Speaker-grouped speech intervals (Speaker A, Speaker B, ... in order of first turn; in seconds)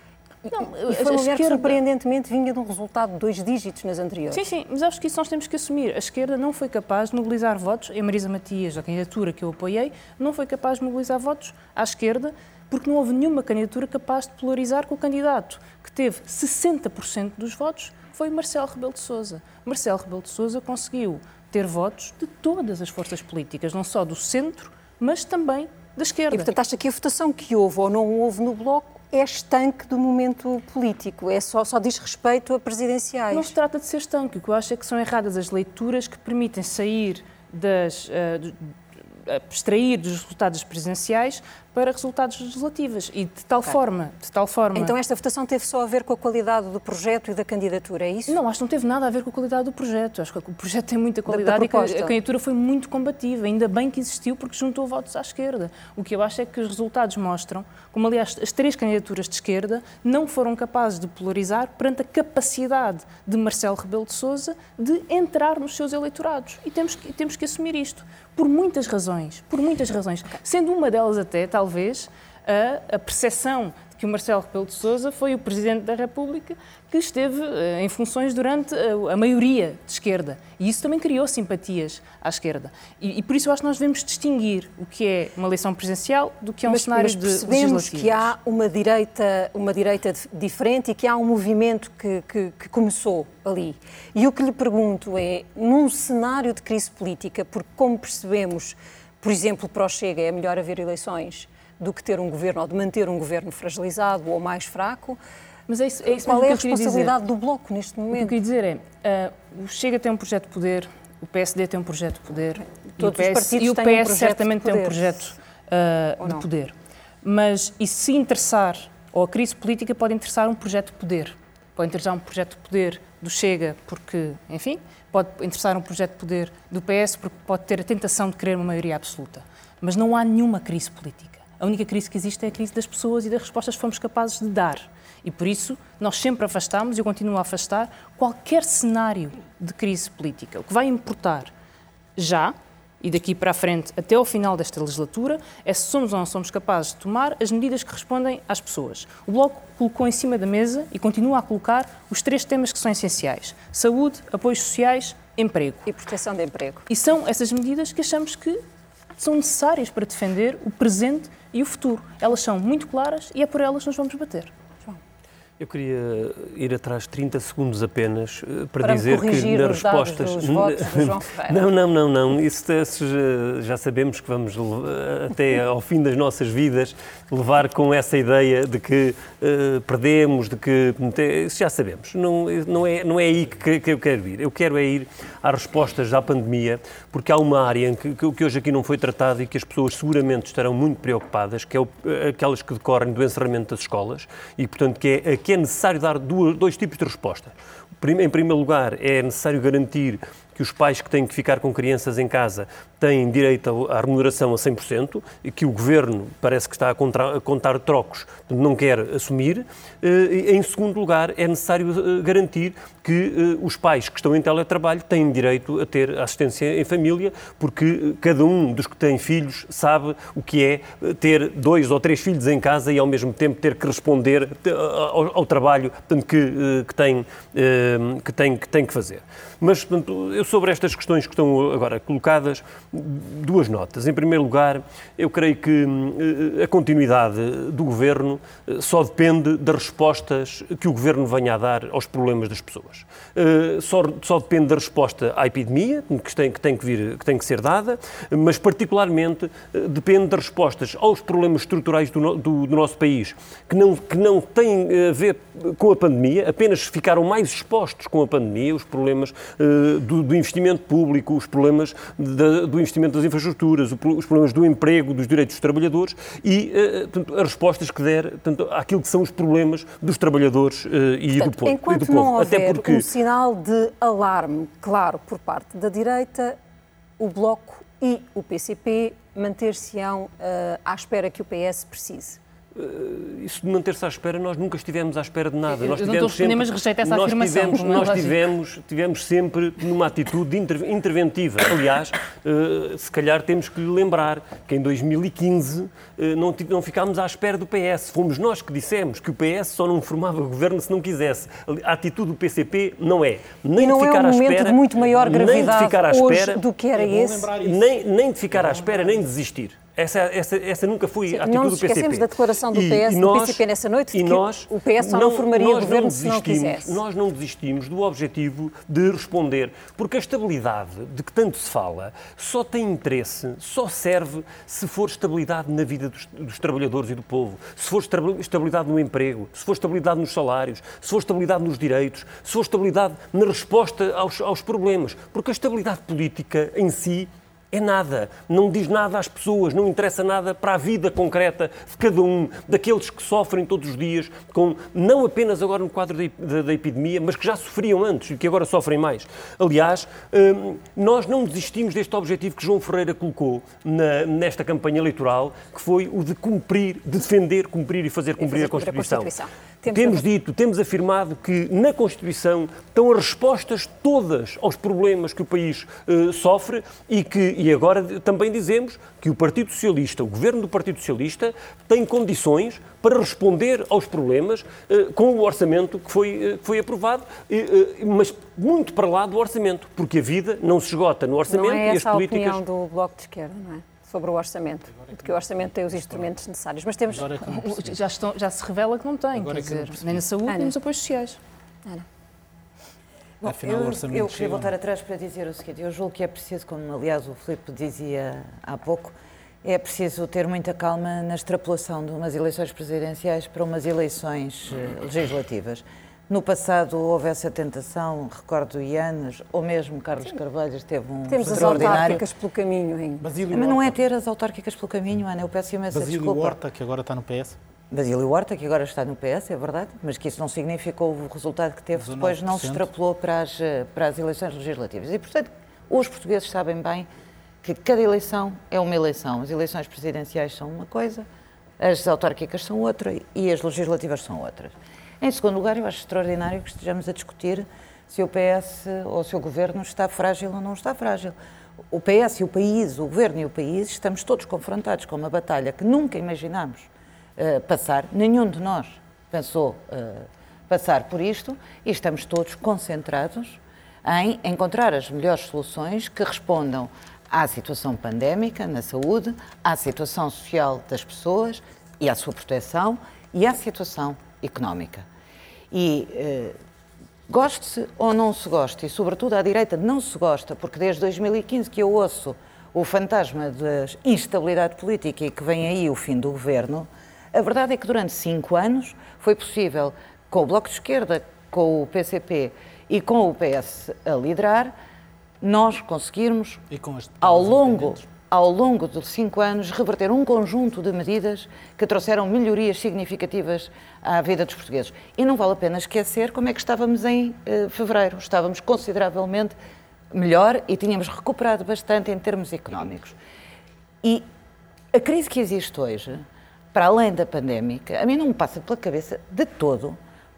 Speaker A: 0.5-1.8, 4.3-26.5, 33.3-45.0, 48.3-88.3, 105.7-107.2, 108.1-141.5, 142.2-155.8, 156.9-158.6, 159.2-164.5, 285.7-288.4, 387.6-391.4
Speaker B: 0.6-4.4, 26.3-33.5, 44.8-48.4, 51.3-52.1, 86.7-105.2, 106.1-108.3, 113.0-115.2, 116.2-116.5, 155.8-156.8, 168.8-171.6, 271.3-276.6, 277.2-282.4, 303.8-307.5, 311.3-317.0, 358.4-360.2, 381.5-387.7, 390.5-390.7, 411.3-413.3
Speaker C: 165.6-273.1, 282.8-306.6, 307.6-359.4, 359.9-382.6
Speaker D: 305.3-305.9, 306.9-308.0, 308.5-309.3, 384.9-386.3, 387.1-388.0, 389.3-390.2, 393.4-394.7, 411.4-412.2, 413.2-414.0, 415.9-417.6, 421.9-422.9, 486.7-488.1
Speaker E: 393.4-412.2, 413.5-416.6, 417.9-427.1, 427.6-431.3, 431.8-441.4, 441.9-465.1, 465.7-466.6, 467.3-484.7, 485.4-486.6, 487.2-499.6, 500.1-503.2, 504.9-510.0